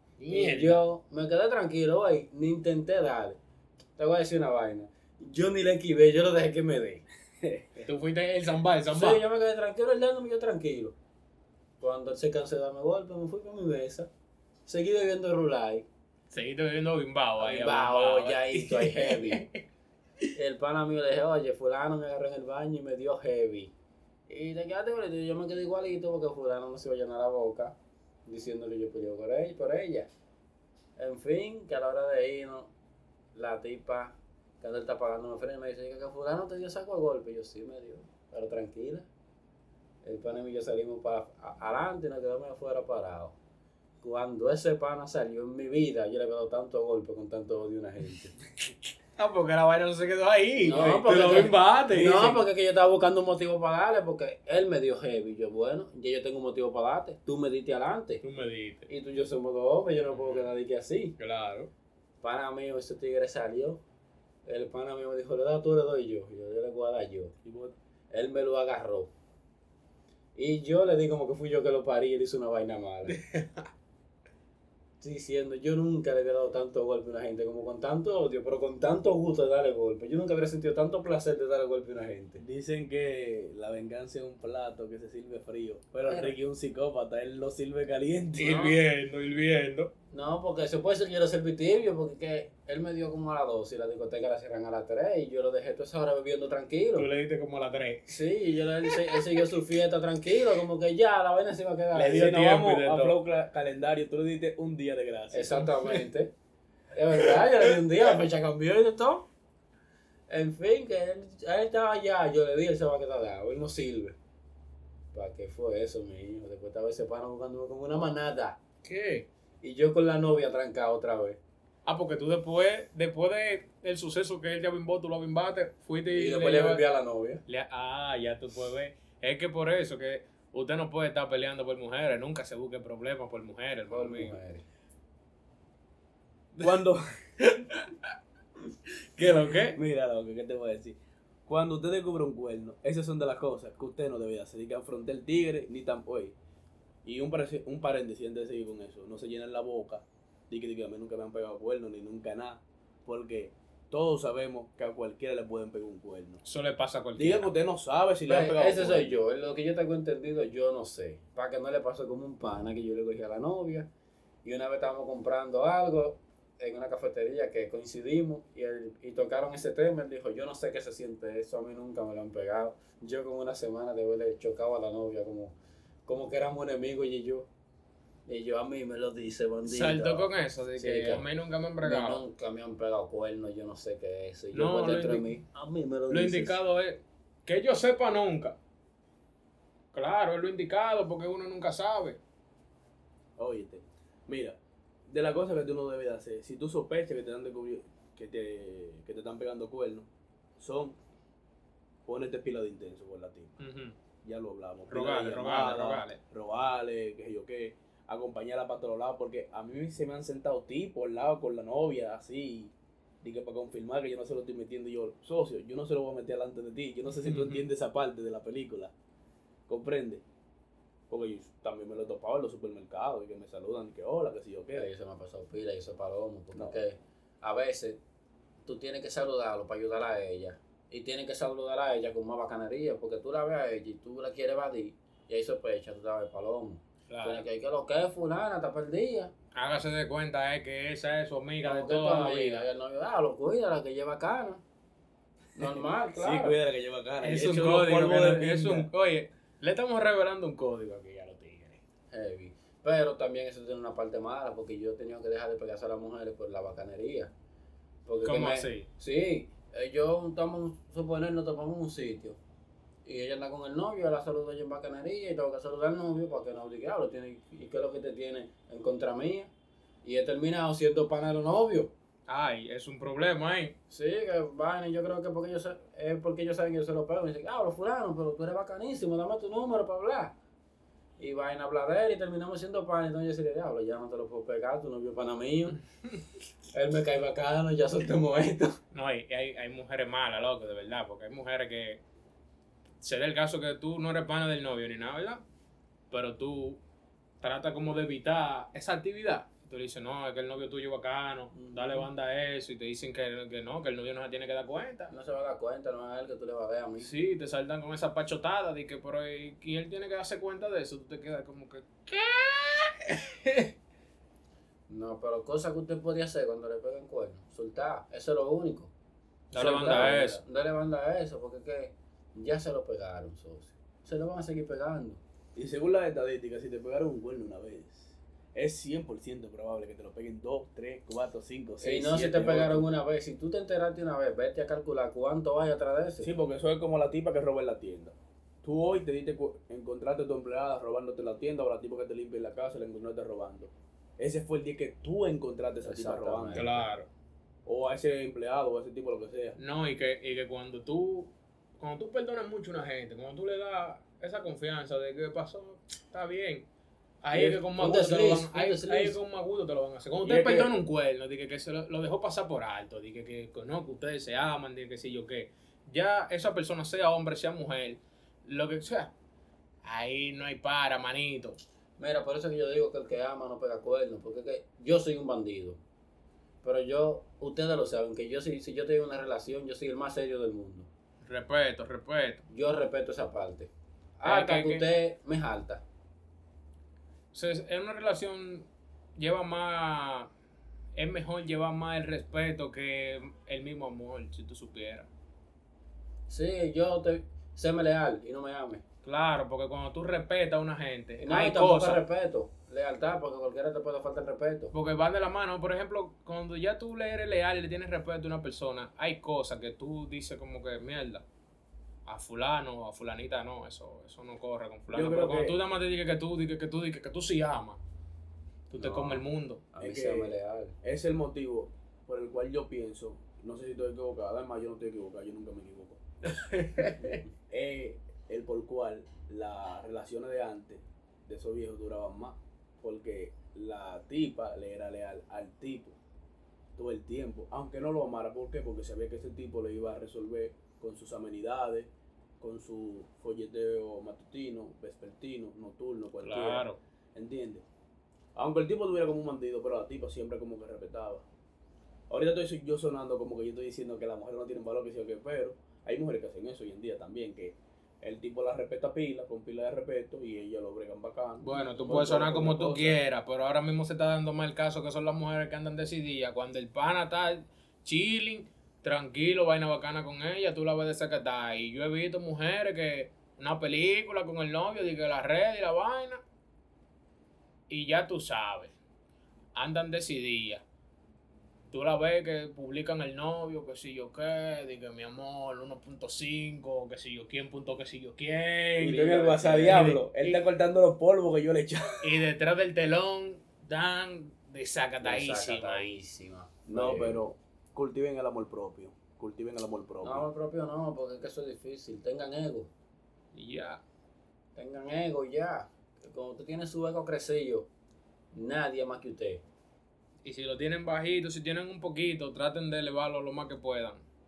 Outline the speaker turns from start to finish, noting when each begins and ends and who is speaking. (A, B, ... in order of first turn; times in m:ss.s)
0:00.2-0:00.8 A
0:00.3-0:03.4 B
0:04.0-0:07.0 B
0:07.4-0:07.8 C
0:07.8-0:09.2 A
0:08.9-0:10.9 B
0:11.8-0:14.1 B
0:14.6-0:15.9 B
0:16.3-0:19.6 A
0:17.4-0:19.5 B
0:20.3-0:23.7 B
0:24.3-0:27.7 B
0:28.2-0:30.1 B
0:31.0-0:32.7 B
0:33.3-0:39.1 B
0:40.0-0:43.4 B
0:44.0-0:48.3 B
0:49.2-0:52.4 A
0:50.6-0:58.2 B
0:50.8-0:51.4 C
0:58.2-0:58.9 A
0:58.9-1:01.1 B
1:00.1-1:00.5 A
1:01.2-1:01.7 A
1:02.2-1:03.8 B
1:04.4-1:07.3 B
1:07.4-1:07.7 C
1:08.1-1:09.1 B
1:10.4-1:13.2 B
1:13.1-1:13.7 A
1:15.0-1:22.4 B
1:22.4-1:28.7 C
1:26.0-1:26.3 B
1:28.4-1:29.9 A
1:28.4-1:28.8 B
1:30.1-1:37.1 B
1:36.9-1:38.2 A
1:38.1-1:42.3 B
1:38.9-1:39.2 A
1:41.9-1:45.6 C
1:42.0-1:43.2 A
1:45.3-1:46.3 B
1:46.9-1:49.3 B
1:50.3-1:54.2 B
1:55.1-1:58.6 B
1:58.8-1:59.2 A
1:59.6-2:01.4 B
2:01.8-2:06.8 A
2:06.1-2:07.4 B
2:07.5-2:14.4 A
2:13.9-2:14.6 B
2:16.6-2:17.0 C
2:17.4-2:17.8 A
2:19.2-2:19.8 A
2:19.7-2:26.3 C
2:27.0-2:36.4 C
2:36.4-2:37.5 A
2:37.2-2:39.2 C
2:38.2-2:43.9 B
2:44.4-2:55.5 B
2:56.0-2:57.5 B
2:58.3-3:01.2 B
2:59.6-3:02.2 A
3:01.8-3:06.6 B
3:04.5-3:05.3 A
3:06.1-3:08.6 A
3:09.9-3:12.2 A
3:13.4-3:21.0 C
3:22.0-3:23.6 C
3:23.6-3:23.9 A
3:24.2-3:38.9 C
3:24.9-3:26.2 A
3:37.1-3:37.6 A
3:39.7-3:40.2 C
3:41.1-3:44.9 C
3:44.7-3:48.0 B
3:48.6-3:59.3 B
3:57.1-3:57.4 A
3:59.5-4:02.6 A
4:01.6-4:04.6 B
4:05.6-4:06.6 B
4:06.2-4:08.9 C
4:07.2-4:11.8 A
4:12.1-4:17.3 B
4:18.0-4:22.4 B
4:18.2-4:18.9 A
4:23.0-4:29.5 B
4:30.0-4:31.9 B
4:32.3-4:33.7 A
4:33.9-4:40.3 B
4:41.2-4:45.8 B
4:46.7-4:48.8 B
4:48.9-4:52.0 A
4:53.0-4:55.4 A
4:56.1-4:56.8 A
4:57.4-5:05.1 A
5:01.5-5:02.1 B
5:05.1-5:07.1 B
5:07.0-5:13.7 A
5:14.9-5:18.9 B
5:19.5-5:20.4 A
5:19.6-5:25.2 B
5:19.6-5:20.4 C
5:25.6-5:32.9 C
5:31.8-5:36.3 B
5:36.2-5:46.7 C
5:45.8-5:46.9 B
5:46.5-5:47.1 A
5:47.6-5:49.6 C
5:49.6-5:56.7 A
5:57.2-6:09.1 A
5:57.3-5:59.2 B
6:00.2-6:00.7 C
6:09.8-6:11.6 A
6:12.0-6:15.8 B
6:16.6-6:20.9 B
6:21.2-6:22.4 A
6:22.5-6:25.8 B
6:24.2-6:24.9 A
6:27.3-6:30.3 A
6:31.0-6:35.1 A
6:36.3-6:38.8 B
6:39.0-6:42.0 A
6:41.2-6:44.7 B
6:44.7-6:51.2 A
6:52.0-6:57.8 A
6:54.9-6:55.6 C
6:58.7-6:59.6 A
6:58.8-7:00.7 B
6:59.8-7:06.0 C
7:06.2-7:07.2 A
7:07.0-7:16.0 C
7:16.8-7:27.6 C
7:26.2-7:26.8 A
7:28.4-7:31.2 C
7:32.1-7:43.0 C
7:41.4-7:56.2 A
7:57.7-7:58.7 A
7:59.5-8:00.6 A
8:01.7-8:10.4 A
8:08.8-8:12.1 C
8:12.0-8:15.9 A
8:15.0-8:17.2 B
8:16.7-8:20.3 C
8:20.0-8:22.7 B
8:23.3-8:23.8 A
8:24.6-8:27.7 B
8:28.3-8:29.4 B
8:30.2-8:34.0 A